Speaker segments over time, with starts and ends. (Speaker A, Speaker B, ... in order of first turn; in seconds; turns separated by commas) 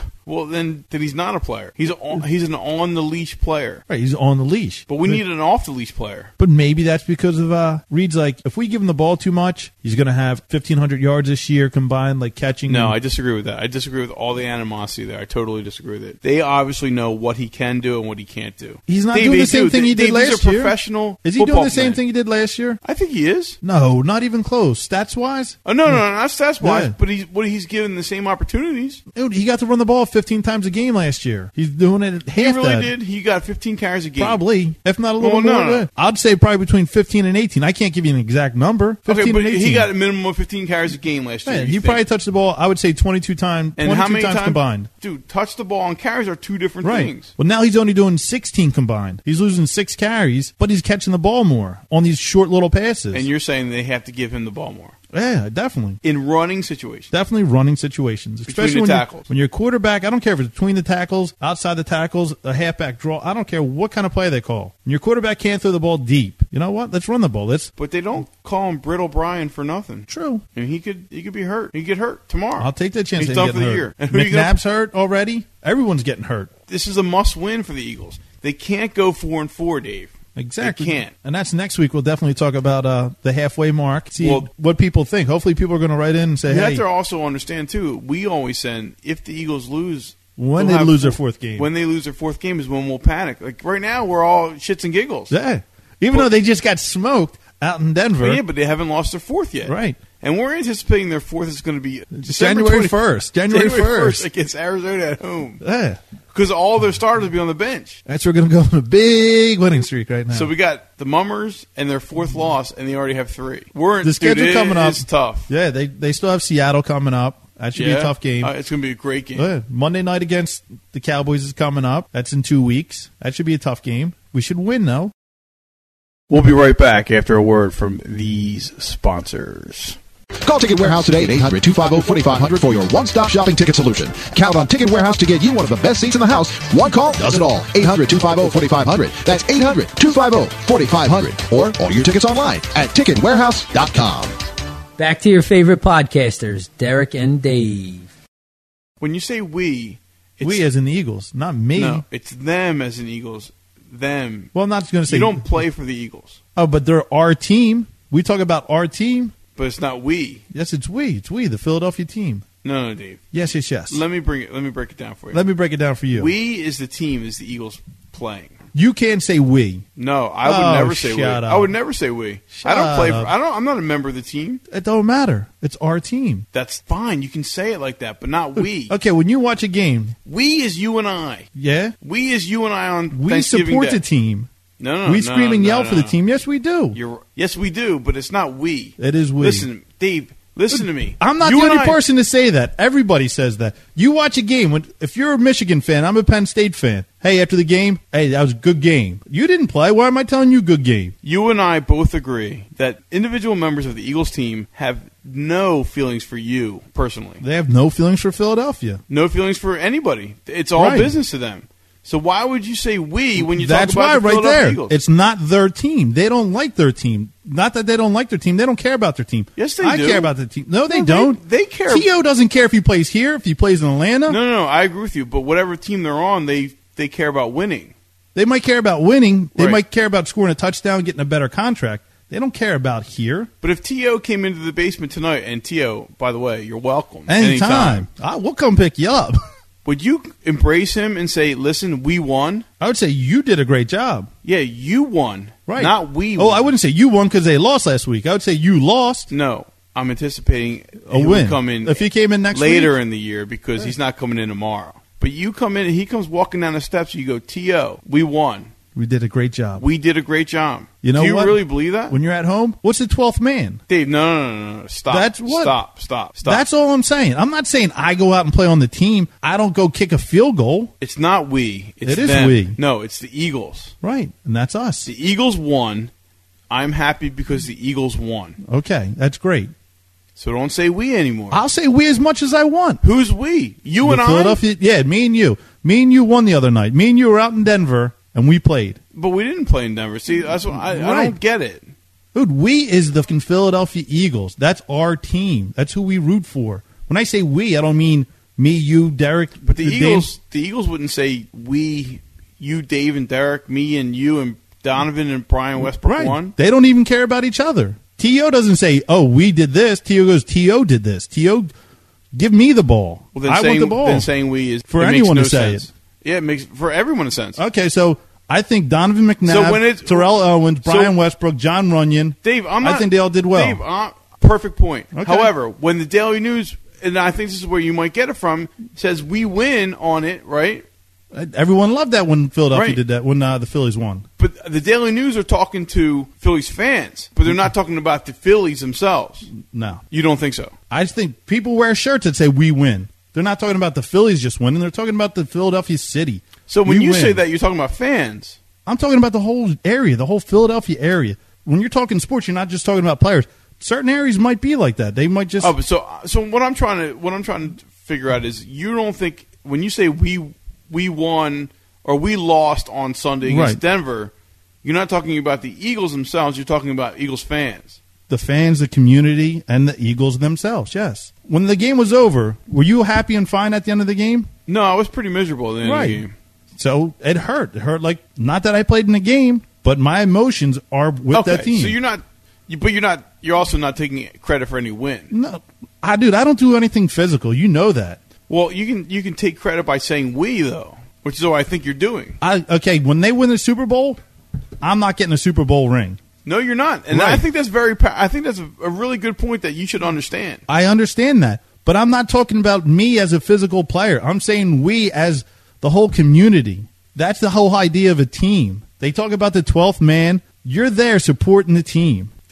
Speaker A: 0.2-3.8, Speaker B: 3.9-5.2, Speaker A: 4.9-6.3, Speaker B: 6.4-12.9, Speaker A: 12.6-22.0, Speaker B: 18.9-22.8, Speaker A: 22.8-23.6, Speaker B: 23.6-26.9, Speaker A: 25.6-29.0, Speaker B: 29.1-32.9, Speaker A: 32.4-34.4, Speaker B: 34.2-39.9, Speaker A: 35.2-35.9, Speaker A: 39.1-42.0, Speaker B: 41.4-44.9, Speaker A: 43.8-47.3, Speaker B: 46.8-53.3, Speaker A: 53.1-54.9, Speaker B: 55.1-56.0, Speaker A: 56.0-57.1, Speaker B: 57.1-67.7, Speaker A: 58.5-59.3, Speaker A: 67.8-74.6, Speaker B: 70.1-70.4, Speaker B: 72.6-76.5, Speaker A: 76.7-81.1, Speaker B: 80.3-86.8, Speaker A: 84.2-84.5, Speaker A: 86.5-95.4, Speaker B: 90.4-91.7, Speaker B: 95.3-98.4, Speaker A: 98.2-105.6, Speaker B: 99.6-100.0, Speaker B: 102.1-104.2, Speaker B: 105.6-106.0, Speaker A: 106.3-108.0, Speaker B: 108.0-110.5, Speaker A: 110.3-115.5, Speaker B: 114.0-118.5, Speaker A: 117.7-119.5, Speaker B: 119.3-125.1, Speaker A: 126.3-130.0, Speaker C: 130.4-144.3, Speaker D: 145.0-148.1, Speaker A: 149.0-150.7, Speaker B: 150.4-152.0, Speaker A: 151.7-154.5, Speaker B: 154.5-155.5, Speaker A: 155.1-156.4, Speaker B: 156.6-159.3, Speaker A: 159.5-160.4, Speaker B: 160.5-162.4, Speaker A: 162.6-163.2, Speaker B: 163.3-164.0, Speaker A: 163.9-165.4, Speaker B: 165.3-166.3, Speaker A: 166.1-168.5, Speaker B: 168.7-169.9, Speaker A: 170.0-174.6, Speaker B: 170.4-171.7, Speaker B: 172.5-173.3, Speaker B: 174.7-176.5, Speaker A: 176.5-179.0, Speaker B: 178.6-180.2, Speaker A: 180.2-181.5, Speaker B: 181.5-181.9, Speaker A: 182.0-184.0, Speaker B: 183.1-184.5, Speaker A: 184.8-186.2, Speaker B: 185.0-187.0, Speaker A: 186.9-192.0, Speaker B: 189.0-189.7, Speaker B: 190.7-201.1, Speaker A: 201.2-207.4, Speaker B: 207.4-209.0, Speaker A: 209.1-215.0, Speaker B: 210.8-211.2, Speaker B: 213.4-224.4, Speaker A: 219.6-220.3, Speaker A: 220.9-222.1, Speaker A: 224.3-227.9, Speaker B: 228.3-233.5, Speaker A: 229.5-229.8, Speaker A: 233.6-238.1, Speaker B: 237.3-239.4, Speaker A: 239.8-242.7, Speaker B: 242.8-244.3, Speaker A: 244.4-246.7, Speaker B: 245.7-249.3, Speaker A: 249.3-258.7, Speaker B: 251.1-253.0, Speaker B: 258.9-259.9, Speaker A: 259.8-262.2, Speaker B: 261.0-263.8, Speaker A: 263.9-266.6, Speaker B: 265.1-265.8, Speaker B: 266.4-270.9, Speaker A: 271.0-273.9, Speaker B: 272.0-272.8, Speaker B: 274.0-275.1, Speaker A: 275.0-276.1, Speaker A: 276.7-278.6, Speaker B: 278.6-279.7, Speaker A: 280.4-281.6, Speaker B: 281.5-283.0, Speaker A: 283.0-284.6, Speaker B: 284.0-289.0, Speaker A: 289.1-291.9, Speaker B: 290.4-291.4, Speaker B: 292.3-300.3, Speaker A: 299.6-306.5, Speaker B: 305.8-311.7, Speaker B: 312.4-314.3, Speaker A: 313.3-317.6, Speaker B: 314.9-315.9, Speaker B: 317.6-323.8, Speaker A: 319.4-321.1, Speaker A: 322.4-330.9, Speaker B: 325.1-325.5, Speaker B: 331.3-334.2, Speaker A: 332.7-333.0, Speaker A: 334.4-339.5, Speaker B: 339.6-340.0, Speaker A: 340.1-340.8, Speaker B: 340.9-347.4, Speaker A: 346.7-348.6, Speaker B: 348.9-355.8, Speaker A: 355.6-368.0, Speaker B: 363.4-363.8, Speaker B: 368.3-374.5, Speaker A: 374.6-376.3, Speaker B: 375.8-376.2, Speaker B: 376.8-382.0, Speaker A: 381.3-385.3, Speaker B: 385.3-388.2, Speaker A: 388.5-392.4, Speaker B: 392.4-394.2, Speaker B: 394.8-396.2, Speaker A: 396.4-400.6, Speaker B: 397.1-397.5, Speaker B: 400.7-412.3